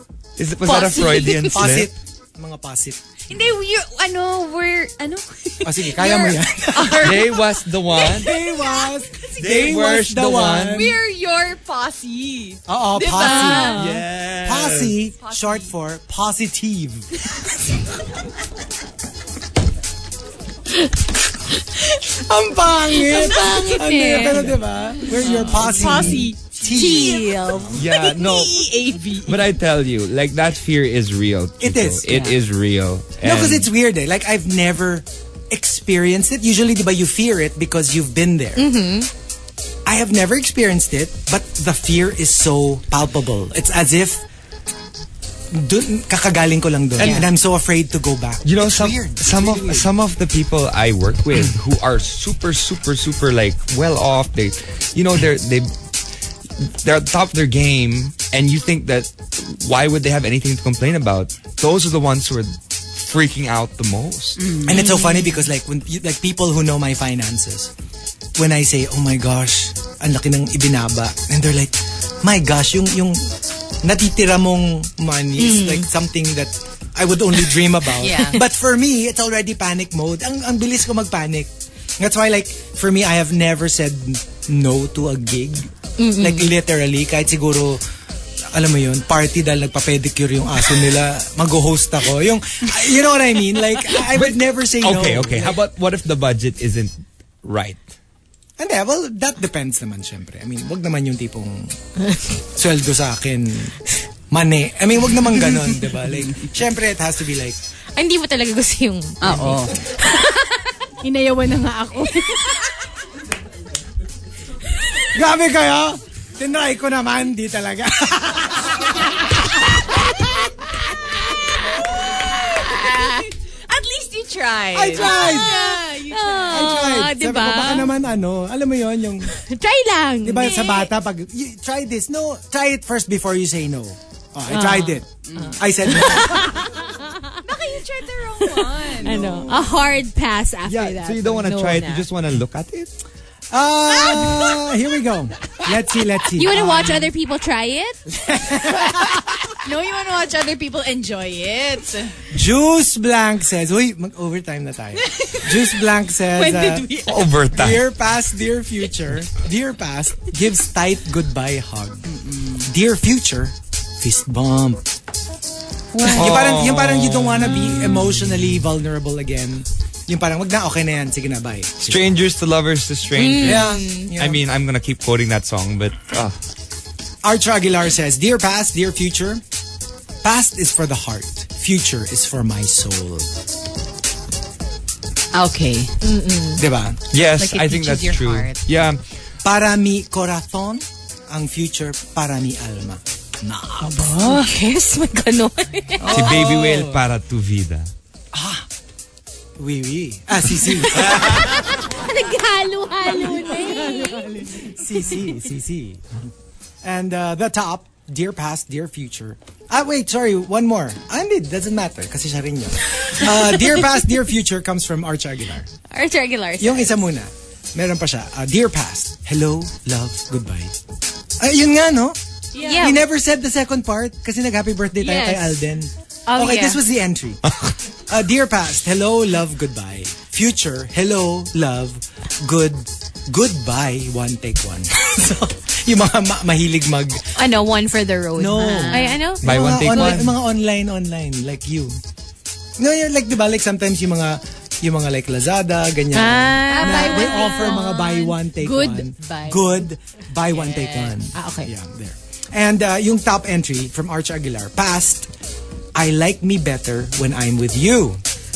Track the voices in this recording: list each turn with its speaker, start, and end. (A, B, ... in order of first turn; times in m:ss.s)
0:00.4-0:01.9 A
0:00.7-0:01.5 B
0:00.7-0:01.2 C
0:00.8-0:03.2 D
0:03.3-0:09.4 B
0:05.6-0:07.4 D
0:07.0-0:08.3 A
0:08.0-0:11.0 D
0:09.4-0:10.9 A
0:10.7-0:14.0 B
0:12.7-0:17.2 D
0:13.2-0:13.6 C
0:13.7-0:14.9 A
0:15.2-0:15.7 B
0:22.0-0:27.6 D
0:23.0-0:24.5 C
0:23.6-0:24.3 B
0:25.2-0:26.4 B
0:25.4-0:27.8 C
0:26.9-0:27.2 B
0:27.7-0:28.7 A
0:27.9-0:29.3 B
0:29.2-0:33.7 A
0:31.6-0:32.1 D
0:32.1-0:32.4 B
0:33.2-0:38.7 D
0:38.6-0:39.1 C
0:39.8-0:44.2 D
0:45.5-0:49.9 D
0:47.0-0:47.3 A
0:48.4-0:55.7 A
0:56.6-1:04.4 A
1:04.4-1:05.1 B
1:04.6-1:07.7 D
1:04.8-1:05.2 C
1:08.4-1:27.8 D
1:15.4-1:15.9 C
1:18.0-1:18.4 B
1:26.0-1:26.5 C
1:28.5-1:35.6 D
1:34.0-1:37.8 A
1:38.6-1:41.8 D
1:42.4-1:47.6 D
1:47.9-1:49.6 C
1:49.2-1:52.7 B
1:55.1-2:00.5 D
2:02.0-2:07.6 B
2:04.7-2:05.6 D
2:05.0-2:07.9 C
2:06.5-2:09.3 D
2:09.3-2:10.9 C
2:10.2-2:16.7 D
2:14.5-2:17.4 C
2:15.3-2:15.7 B
2:17.4-2:19.5 B
2:19.0-2:19.7 D
2:19.0-2:22.0 C
2:20.6-2:22.9 A
2:23.5-2:27.1 D
2:24.1-2:24.4 B
2:26.4-2:28.0 C
2:28.1-2:29.4 D
2:29.6-2:32.2 B
2:32.3-2:36.9 D
2:35.1-2:35.5 B
2:36.3-2:37.3 B
2:37.0-2:37.8 A
2:37.5-2:44.8 D
2:42.1-2:42.7 B
2:45.9-2:46.4 B
2:46.0-2:52.2 D
2:46.1-2:47.8 A
2:51.8-2:56.4 A
2:53.1-2:54.1 C
2:53.4-2:54.4 D
2:57.2-2:59.4 D
3:00.2-3:03.3 D
3:05.3-3:05.9 B
3:06.0-3:06.6 C
3:06.6-3:07.1 D
3:07.1-3:09.0 A
3:07.3-3:08.6 B
3:09.4-3:14.1 D
3:13.8-3:14.6 B
3:14.2-3:16.4 C
3:16.0-3:17.0 D
3:16.0-3:17.9 A
3:18.3-3:18.7 D
3:19.6-3:21.8 D
3:21.0-3:24.3 C
3:23.2-3:26.0 D
3:26.8-3:35.7 D
3:35.9-3:37.0 C
3:36.6-3:40.8 D
3:41.4-3:42.2 D
3:42.5-3:42.9 B
3:42.6-3:43.0 C
3:42.7-3:57.4 D
3:45.0-3:45.6 C
3:46.3-3:46.8 C
3:57.3-4:00.2 C
3:58.3-4:02.0 D
3:58.5-3:59.2 B
3:59.4-4:00.4 A
4:02.8-4:15.3 D
4:06.1-4:07.9 C
4:06.7-4:09.7 B
4:10.5-4:11.2 B
4:11.3-4:11.7 C
4:15.9-4:18.2 D